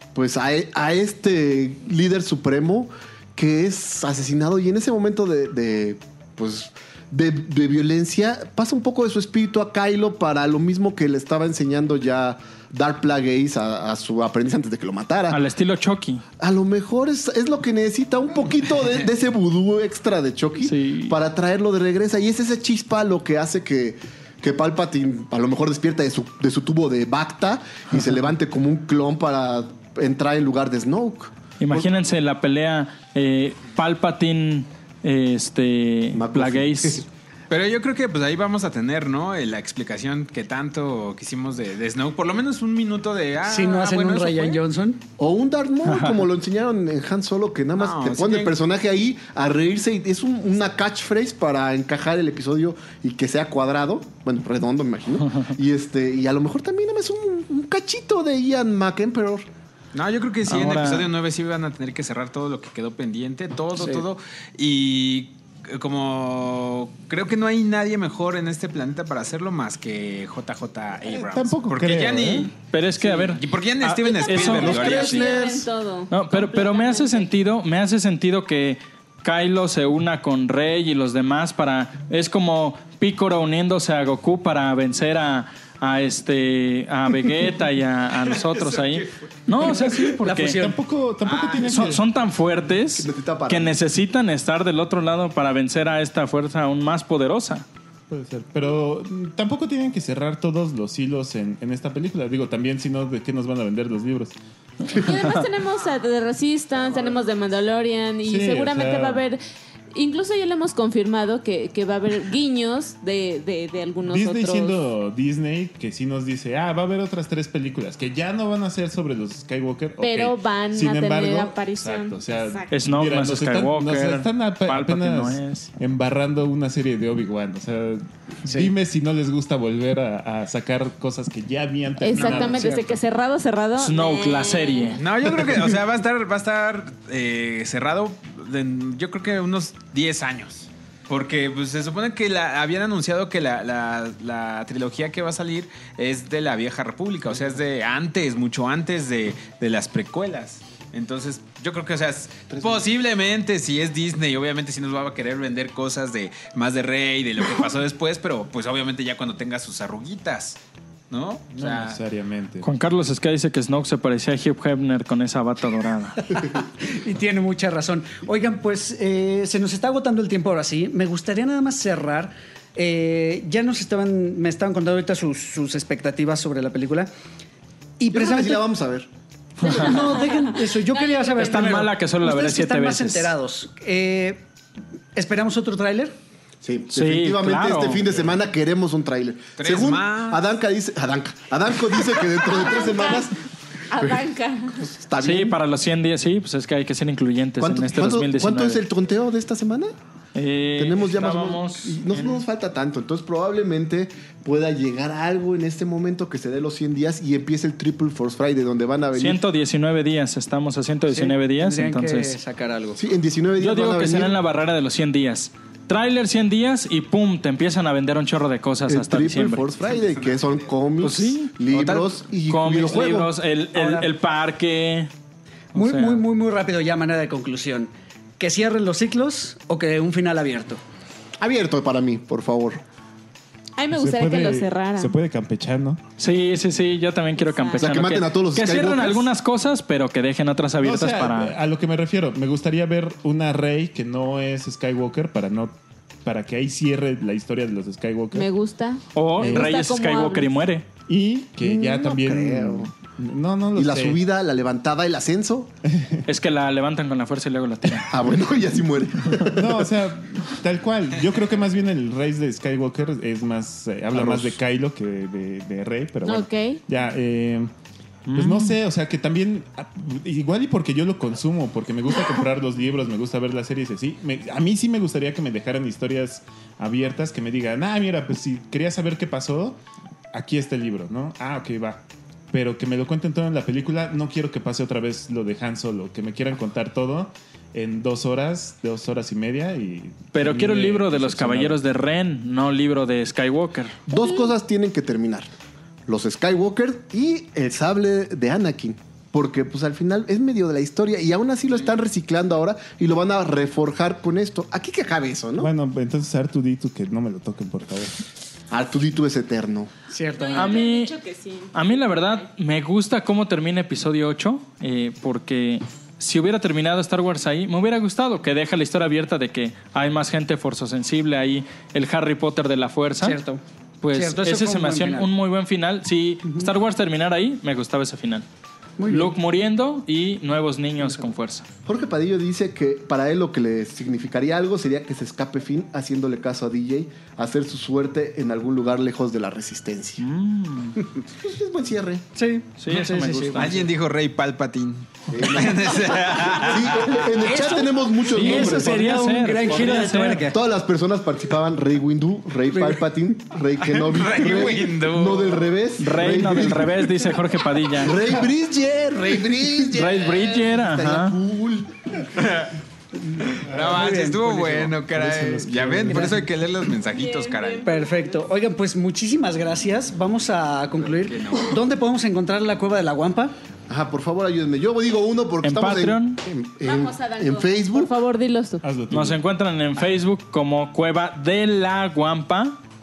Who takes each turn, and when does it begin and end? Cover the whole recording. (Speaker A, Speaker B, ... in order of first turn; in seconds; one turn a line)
Speaker A: 0.1-15.4
Speaker B: 15.3-16.2
Speaker A: 16.4-31.9
Speaker B: 20.6-21.1
Speaker B: 31.6-37.0
Speaker A: 36.1-37.1
Speaker C: 37.5-44.6
Speaker D: 43.5-45.0
Speaker A: 45.2-59.5
Speaker B: 45.9-46.2
Speaker C: 47.8-48.6
Speaker C: 59.9-75.3
Speaker B: 60.5-61.1
Speaker E: 71.1-72.5
Speaker B: 72.7-75.4
Speaker F: 74.0-77.3
Speaker A: 74.4-75.7
Speaker B: 76.1-90.6
Speaker C: 88.2-89.1
Speaker D: 89.5-90.8
Speaker E: 90.4-92.0
Speaker C: 91.3-91.6
Speaker B: 91.6-97.7
Speaker A: 92.9-93.8
Speaker E: 98.1-104.4
Speaker F: 104.9-109.4
Speaker E: 108.2-109.2
Speaker F: 109.9-114.8
Speaker E: 114.1-133.0
Speaker F: 120.0-122.7
Speaker B: 122.7-125.7
Speaker D: 128.5-128.7
Speaker F: 132.0-135.0
Speaker D: 132.2-132.9
Speaker B: 133.8-135.0
Speaker C: 135.0-160.6
Speaker A: 152.5-152.8
Speaker C: 161.1-162.0
Speaker E: 161.6-162.7
Speaker B: 162.6-166.4
Speaker D: 166.3-177.1
Speaker D: 178.0-178.7
Speaker A: 178.1-179.1
Speaker B: 179.6-180.1
Speaker D: 179.6-184.4
Speaker F: 180.9-181.8
Speaker B: 181.4-183.3
Speaker D: 185.2-186.2
Speaker A: 186.6-193.4
Speaker B: 186.9-188.1
Speaker C: 189.6-190.5
Speaker F: 192.6-193.3
Speaker F: 193.9-194.8
Speaker A: 193.9-194.2
Speaker A: 194.8-195.6
Speaker B: 195.2-198.8
Speaker A: 197.6-199.9
Speaker B: 200.3-202.4
Speaker A: 200.8-209.4
Speaker B: 209.2-212.4
Speaker D: 211.1-213.0
Speaker A: 213.0-214.4
Speaker B: 213.6-219.7
Speaker A: 218.9-223.3
Speaker C: 219.9-220.7
Speaker B: 221.0-225.1
Speaker D: 223.7-224.1
Speaker B: 225.7-226.2
Speaker D: 225.8-230.8
Speaker A: 231.4-232.8
Speaker F: 233.8-235.2
Speaker E: 233.9-236.0
Speaker B: 236.2-241.5
Speaker F: 237.4-238.0
Speaker A: 237.8-239.3
Speaker E: 240.8-248.5
Speaker F: 248.3-250.5
Speaker B: 249.2-250.9
Speaker E: 249.4-249.8
Speaker E: 251.1-254.2
Speaker A: 251.7-252.9
Speaker A: 253.8-255.7
Speaker E: 255.8-256.2
Speaker B: 256.3-258.1
Speaker A: 258.1-259.8
Speaker E: 259.5-267.7
Speaker A: 264.1-264.6
Speaker F: 266.2-266.8
Speaker B: 268.3-268.8
Speaker E: 268.3-279.8
Speaker E: 280.3-291.9
Speaker B: 290.3-294.0
Speaker A: 294.1-295.5
Speaker F: 294.1-294.5
Speaker A: 296.1-305.7
Speaker E: 305.6-308.1
Speaker A: 308.7-309.9
Speaker D: 310.1-310.8
Speaker F: 310.4-312.4
Speaker B: 310.5-311.2
Speaker B: 311.7-323.4
Speaker D: 323.2-323.6
Speaker B: 324.0-328.5
Speaker D: 324.1-325.3
Speaker D: 329.0-329.4
Speaker B: 329.1-331.7
Speaker D: 331.0-331.3
Speaker A: 331.9-340.3
Speaker B: 340.2-341.0
Speaker A: 341.4-342.2
Speaker D: 342.4-343.9
Speaker B: 342.8-343.9
Speaker C: 343.6-347.4
Speaker A: 345.3-349.2
Speaker D: 347.4-350.6
Speaker B: 348.4-350.5
Speaker A: 350.5-357.3
Speaker D: 352.7-353.0
Speaker C: 353.8-355.7
Speaker B: 356.0-358.3
Speaker A: 357.9-362.0
Speaker B: 359.9-361.4
Speaker C: 360.2-360.6
Speaker C: 362.3-362.7
Speaker C: 363.4-367.9
Speaker D: 363.7-365.0
Speaker E: 365.1-366.5
Speaker D: 366.1-366.4
Speaker F: 367.1-368.4
Speaker D: 367.8-373.5
Speaker C: 371.1-371.8
Speaker A: 373.9-378.1
Speaker B: 375.6-376.4
Speaker F: 376.8-378.8
Speaker E: 378.8-379.4
Speaker B: 379.1-382.8